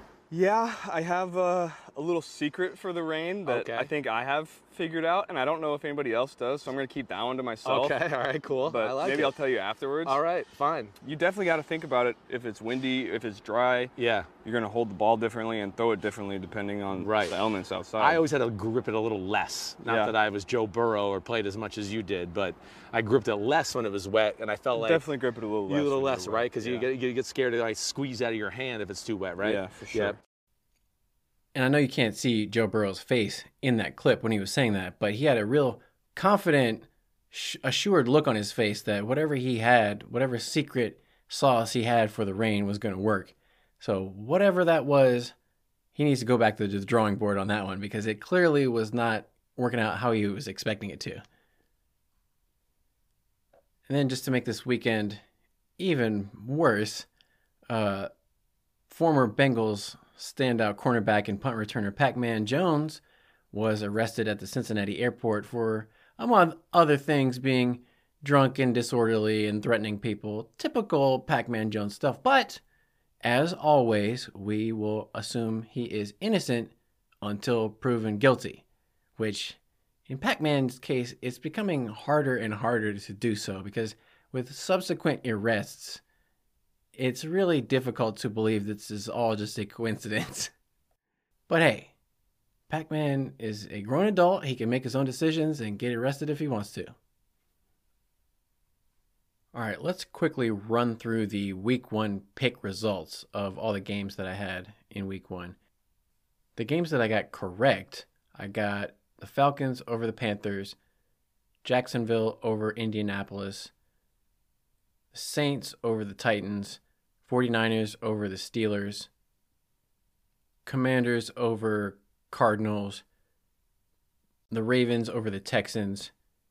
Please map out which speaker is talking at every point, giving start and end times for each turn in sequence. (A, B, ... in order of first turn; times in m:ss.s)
0:00.3-0:08.0 A
0:03.4-0:03.9 B
0:07.6-0:09.3 B
0:08.6-0:10.2 A
0:10.0-0:10.9 B
0:11.0-0:18.2 A
0:14.0-0:14.3 B
0:16.9-0:17.4 B
0:18.0-0:25.0 B
0:19.8-0:20.1 A
0:24.7-0:26.8 A
0:25.7-0:30.2 B
0:29.4-0:30.2 A
0:31.5-0:45.3 C
0:45.9-0:51.2 C
0:53.9-0:55.2 C
0:55.8-0:57.1 C
0:57.7-0:58.1 C
0:58.9-1:03.0 C
1:03.5-1:12.6 C
1:13.2-1:18.6 C
1:19.2-1:26.0 C
1:26.9-1:30.5 C
1:31.5-1:31.9 C
1:32.7-1:36.9 C
1:39.5-1:45.6 C
1:46.6-1:50.8 C
1:51.6-1:53.7 C
1:55.1-1:59.1 C
2:00.6-2:03.0 C
2:04.5-2:06.1 C